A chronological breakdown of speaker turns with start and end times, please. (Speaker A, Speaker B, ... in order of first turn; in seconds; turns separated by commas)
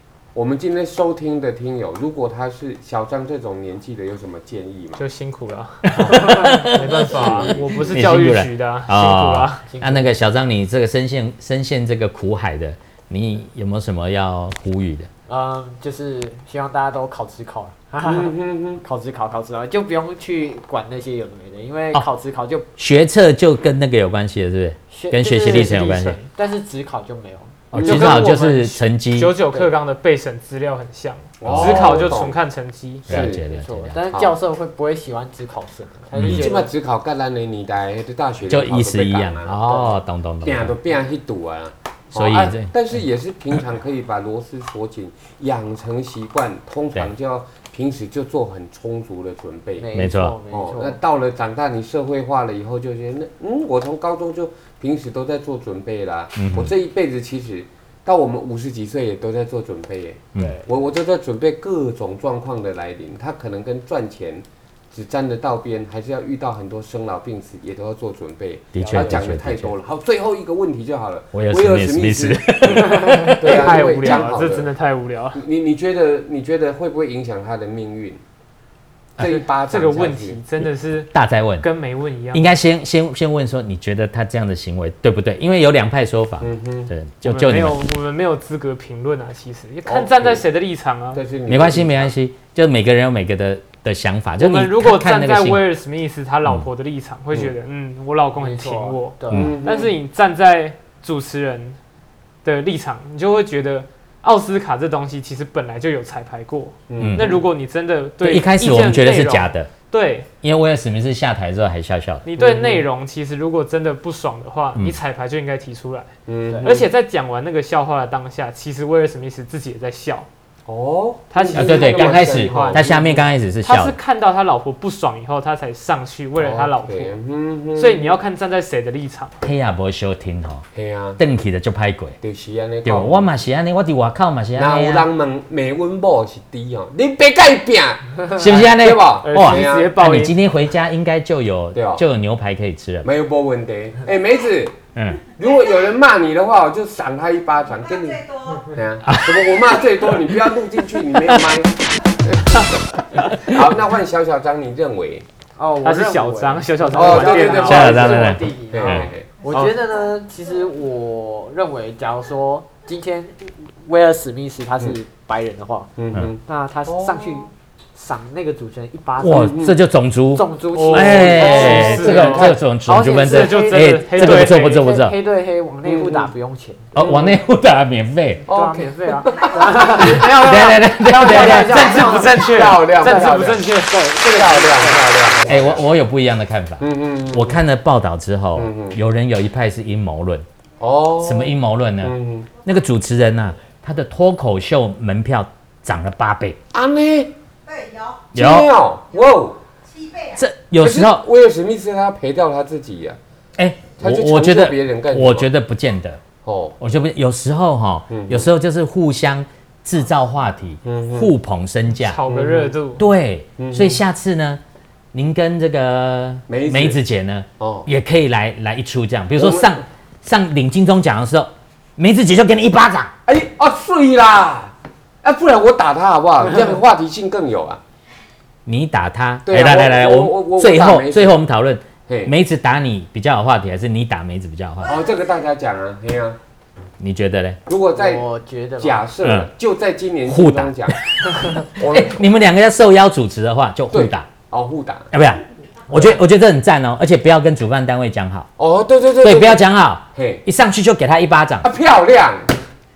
Speaker A: 0.3-5.0, Speaker B: 5.0-9.6, Speaker C: 5.8-7.3, Speaker D: 5.9-7.5, Speaker A: 6.9-8.0, Speaker C: 7.9-15.1, Speaker D: 9.7-10.1, Speaker D: 15.3-22.7, Speaker A: 18.0-18.8, Speaker C: 22.8-26.2, Speaker D: 24.9-27.6, Speaker C: 27.7-29.3, Speaker B: 27.7-33.2, Speaker A: 27.7-28.2, Speaker A: 31.4-32.4, Speaker C: 31.4-32.2, Speaker A: 33.1-33.4, Speaker C: 33.1-34.0, Speaker D: 33.1-36.7, Speaker A: 34.1-34.4, Speaker A: 36.1-39.9, Speaker C: 36.2-36.5, Speaker C: 38.5-40.7, Speaker D: 39.6-40.0, Speaker A: 40.4-49.9, Speaker C: 42.1-43.0, Speaker D: 49.8-51.0, Speaker C: 49.9-50.3, Speaker A: 50.5-74.7, Speaker C: 56.4-56.7, Speaker D: 60.4-60.7, Speaker C: 68.7-69.7, Speaker D: 68.8-69.3, Speaker C: 71.3-73.6, Speaker D: 73.0-73.3, Speaker B: 73.2-75.4, Speaker A: 75.3-78.2, Speaker B: 79.2-82.5, Speaker A: 79.2-80.4, Speaker C: 81.1-81.7, Speaker C: 82.3-87.9, Speaker A: 86.4-86.9, Speaker B: 87.2-91.2, Speaker A: 89.8-90.4, Speaker A: 91.1-92.1, Speaker C: 91.5-95.7, Speaker B: 94.4-101.8, Speaker D: 98.4-99.5, Speaker C: 99.3-99.5, Speaker A: 99.3-100.0, Speaker B: 102.4-110.3, Speaker A: 106.9-107.5, Speaker C: 107.0-107.3, Speaker C: 108.2-109.7, Speaker C: 110.4-112.2, Speaker B: 112.2-116.1, Speaker A: 112.4-112.8, Speaker A: 116.3-116.8, Speaker D: 116.5-116.8, Speaker B: 116.6-120.3, Speaker A: 120.7-123.3, Speaker B: 121.3-123.0, Speaker C: 121.5-124.0, Speaker B: 123.6-127.1, Speaker A: 126.4-128.2, Speaker B: 127.8-129.4, Speaker C: 129.4-130.7, Speaker A: 130.7-131.2, Speaker C: 131.2-132.2, Speaker A: 132.2-133.3, Speaker C: 132.8-135.1, Speaker A: 134.6-139.9, Speaker C: 138.3-143.1, Speaker B: 139.2-140.3, Speaker A: 141.7-142.0, Speaker A: 143.0-155.2, Speaker C: 144.9-145.2, Speaker E: 147.9-148.7, Speaker C: 149.1-150.5, Speaker C: 151.1-151.5, Speaker C: 153.2-153.8, Speaker D: 155.6-165.9, Speaker B: 155.8-158.2, Speaker A: 156.9-159.8, Speaker C: 157.0-159.1, Speaker A: 166.0-167.5, Speaker D: 166.4-169.6, Speaker C: 169.2-175.2, Speaker A: 169.3-169.8, Speaker D: 170.3-177.1, Speaker B: 170.7-172.5, Speaker A: 171.4-172.3, Speaker B: 173.1-174.8, Speaker A: 175.8-176.3, Speaker C: 176.9-178.4, Speaker A: 176.9-177.3, Speaker A: 178.5-183.7, Speaker D: 178.5-185.7, Speaker C: 179.9-182.4, Speaker B: 181.3-184.0, Speaker A: 184.2-185.9, Speaker C: 185.4-190.4, Speaker A: 186.8-187.6, Speaker A: 188.6-189.0, Speaker A: 190.8-192.5, Speaker C: 191.2-196.6, Speaker A: 196.7-197.3, Speaker E: 197.6-198.3, Speaker C: 198.3-198.7, Speaker A: 198.3-199.6, Speaker E: 199.8-200.4, Speaker C: 200.3-201.2, Speaker A: 200.8-203.2, Speaker C: 203.6-206.2, Speaker A: 204.0-205.5, Speaker A: 206.4-206.8, Speaker C: 206.8-212.2, Speaker A: 208.1-208.5, Speaker A: 210.8-211.3, Speaker B: 211.9-213.1, Speaker A: 212.3-212.8, Speaker C: 213.0-214.6, Speaker A: 213.6-214.0, Speaker C: 215.1-223.1, Speaker A: 216.5-217.0, Speaker A: 217.6-217.9, Speaker A: 219.4-219.8, Speaker A: 223.2-227.8, Speaker C: 228.7-235.0, Speaker A: 229.4-231.4, Speaker A: 232.1-232.3, Speaker A: 234.8-236.4, Speaker C: 237.0-237.6, Speaker A: 237.7-238.2, Speaker D: 237.9-239.0, Speaker A: 238.8-242.2, Speaker C: 239.2-239.5, Speaker C: 240.2-244.3, Speaker A: 243.9-245.1, Speaker C: 245.1-248.5, Speaker A: 248.6-250.4, Speaker C: 249.2-251.7, Speaker A: 251.6-252.6